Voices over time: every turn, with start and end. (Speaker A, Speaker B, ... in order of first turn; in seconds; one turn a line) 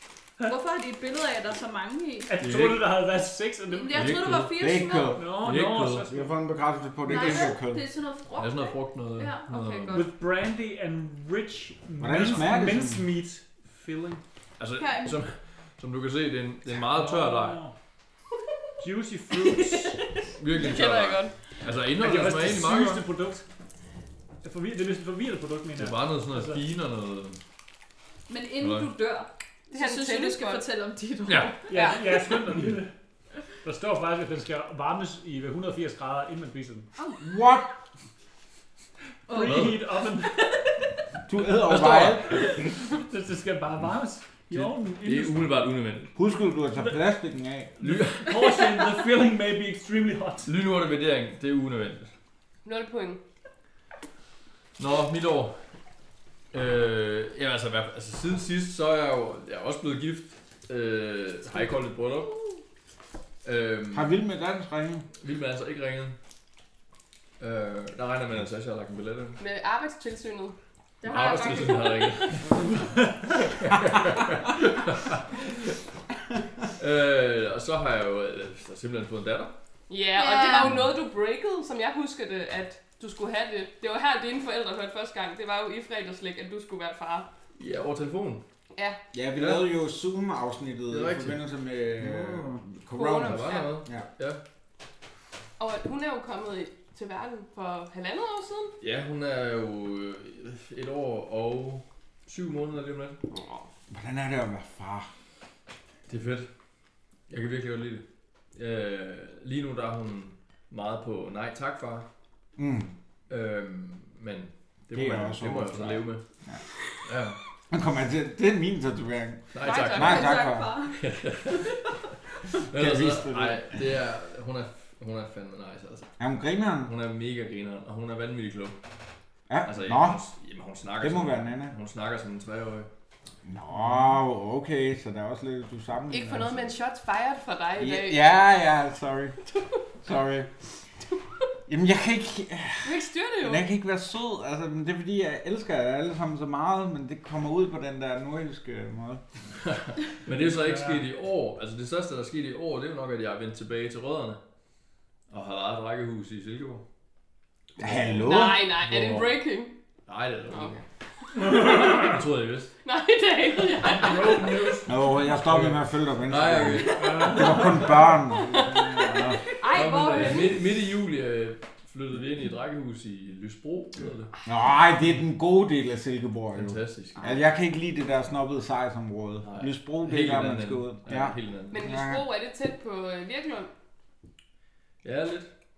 Speaker A: 0.4-2.3
Speaker B: 2.3-4.1
Speaker C: 2.4-2.8
Speaker A: 3.7-5.2
Speaker C: 3.9-4.6
Speaker D: 4.5-5.4
Speaker B: 5.1-6.3
Speaker C: 5.4-6.1
Speaker D: 6.0-7.8
Speaker A: 7.0-9.9
Speaker C: 8.3-10.1
Speaker E: 9.5-10.0
Speaker B: 9.9-14.2
Speaker D: 12.0-13.1
Speaker C: 14.6-17.6
Speaker A: 14.8-15.2
Speaker B: 16.8-17.7
Speaker B: 18.8-20.0
Speaker A: 19.5-20.0
Speaker C: 20.4-23.0
Speaker E: 20.5-21.4
Speaker B: 22.0-23.4
Speaker B: 24.4-26.6
Speaker C: 25.8-27.4
Speaker A: 28.3-32.0
Speaker C: 28.6-28.9
Speaker E: 29.7-30.6
Speaker C: 31.3-31.6
Speaker B: 31.7-32.9
Speaker B: 33.6-36.9
Speaker D: 37.2-37.7
Speaker A: 39.3-39.7
Speaker B: 39.3-40.5
Speaker C: 39.4-39.8
Speaker A: 40.4-40.7
Speaker D: 41.3-42.7
Speaker C: 41.6-42.5
Speaker B: 42.3-45.4
Speaker C: 44.5-46.1
Speaker D: 46.1-47.8
Speaker B: 47.8-50.5
Speaker C: 47.8-48.4
Speaker C: 50.4-52.1
Speaker E: 52.6-53.2
Speaker C: 54.8-55.6
Speaker C: 56.5-62.3
Speaker C: 63.4-64.1
Speaker D: 63.9-65.1
Speaker C: 65.2-66.2
Speaker C: 67.4-69.4
Speaker E: 69.4-70.6
Speaker A: 71.0-72.0
Speaker C: 71.1-75.5
Speaker E: 71.1-71.8
Speaker C: 76.8-79.5
Speaker E: 79.9-87.3
Speaker A: 80.2-80.8
Speaker C: 87.5-88.4
Speaker E: 88.7-89.0
Speaker D: 89.1-94.1
Speaker C: 89.4-89.7
Speaker C: 90.9-91.4
Speaker C: 92.0-92.6
Speaker E: 92.9-93.8
Speaker C: 93.1-94.4
Speaker E: 95.6-98.8
Speaker C: 98.8-103.2
Speaker E: 103.3-103.7
Speaker D: 103.9-105.1
Speaker C: 106.1-106.5
Speaker C: 107.3-112.1
Speaker D: 112.6-112.9
Speaker C: 113.3-116.2
Speaker D: 114.9-116.6
Speaker C: 117.0-117.4
Speaker D: 117.7-120.7
Speaker C: 119.5-120.3
Speaker E: 119.6-120.3
Speaker A: 119.9-121.0
Speaker C: 120.9-121.9
Speaker C: 122.5-126.1
Speaker D: 122.7-123.8
Speaker D: 126.2-126.9
Speaker C: 126.8-128.8
Speaker D: 129.5-130.2
Speaker C: 129.6-132.9
Speaker D: 131.0-131.7
Speaker D: 133.4-136.7
Speaker E: 136.1-138.3
Speaker D: 137.8-139.4
Speaker D: 140.0-140.5
Speaker D: 141.7-149.2
Speaker E: 142.8-143.6
Speaker C: 149.6-154.4
Speaker B: 150.3-151.0
Speaker C: 155.3-156.8
Speaker C: 157.8-159.4
Speaker D: 157.8-158.7
Speaker E: 158.2-159.8
Speaker C: 160.1-160.8
Speaker E: 160.5-162.0
Speaker C: 161.4-162.7
Speaker B: 161.6-161.9
Speaker E: 162.8-164.8
Speaker B: 163.7-165.4
Speaker D: 164.8-169.5
Speaker C: 165.4-168.0
Speaker B: 166.9-168.2
Speaker E: 168.3-170.7
Speaker A: 169.7-170.5
Speaker C: 169.7-174.3
Speaker D: 174.4-182.2
Speaker C: 176.5-177.3
Speaker C: 179.4-181.9
Speaker E: 181.7-183.7
Speaker C: 185.0-185.5